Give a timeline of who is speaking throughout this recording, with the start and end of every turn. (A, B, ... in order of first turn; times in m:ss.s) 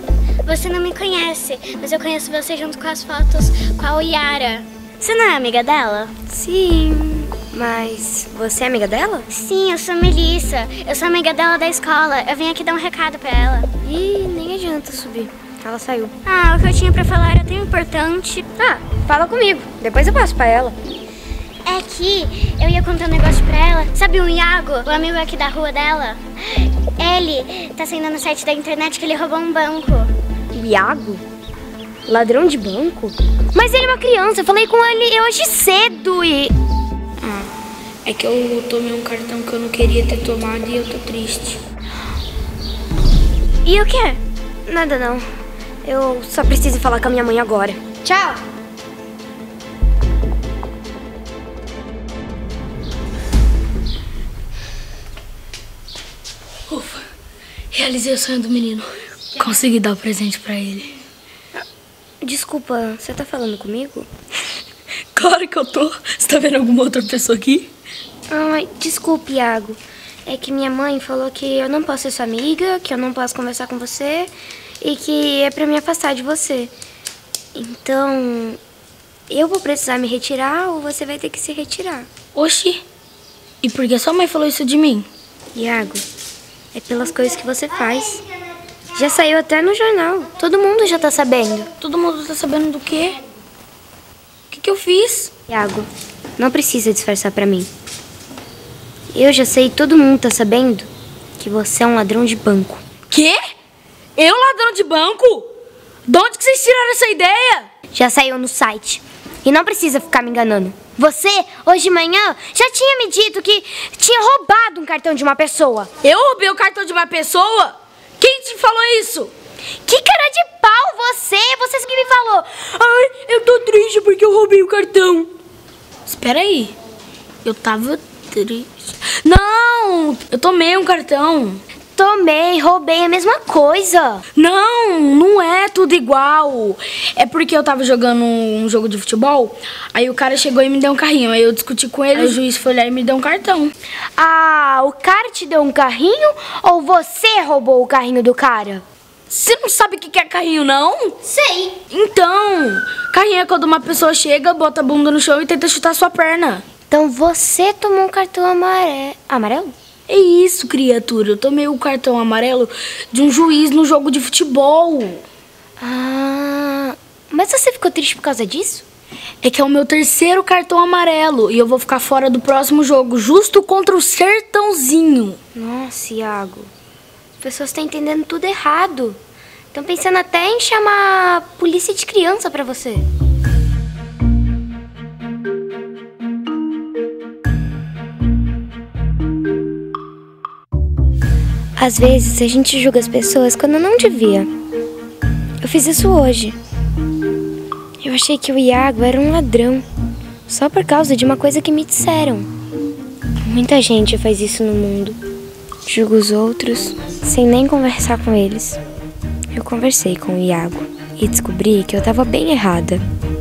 0:00.4-0:06.1 A
0:06.3-0:09.3 B
0:09.3-0:13.7 A
0:13.8-0:16.1 B
0:16.2-0:18.5 A
0:18.6-0:20.8 B
0:21.6-0:30.1 A
0:30.5-0:31.2 B
0:32.0-0:36.5 B
0:37.2-0:37.5 C
0:38.0-0:41.6 C
0:43.6-0:44.2 A
0:44.7-0:45.3 B
0:45.8-0:48.4 B
0:56.7-0:57.0 C
0:57.7-1:00.9 C
1:02.2-1:04.1 B
1:05.1-1:07.7 C
1:08.3-1:16.7 B
1:17.5-1:18.6 B
1:19.3-1:22.1 B
1:22.3-1:22.8 C
1:23.6-1:25.1 C
1:25.5-1:26.0 B
1:26.7-1:28.2 B
1:28.9-1:31.7 B
1:31.8-1:33.2 C
1:34.5-1:35.3 C
1:35.5-1:37.7 B
1:39.1-1:42.8 B
1:43.1-1:43.4 C
1:44.2-1:45.5 C
1:46.1-1:47.7 C
1:47.9-1:55.9 B
1:56.0-1:59.3 C
1:59.8-2:02.8 B
2:02.9-2:05.3 C
2:06.1-2:06.7 C
2:07.4-2:11.6 C
2:11.9-2:14.2 B
2:14.4-2:23.7 C
2:24.2-2:28.8 B
2:29.3-2:31.1 C
2:31.2-2:31.7 B
2:31.9-2:36.6 C
2:36.9-2:39.7 B
2:40.1-2:45.2 C
2:45.8-2:48.8 B
2:49.4-2:55.4 C
2:55.5-2:56.7 B
2:57.4-2:59.2 B
2:59.7-3:03.1 B
3:11.8-3:14.5 B
3:15.6-3:16.6 B
3:18.0-3:19.8 B
3:20.5-3:22.5 B
3:23.4-3:25.2 B
3:25.8-3:28.8 B
3:29.5-3:33.0 B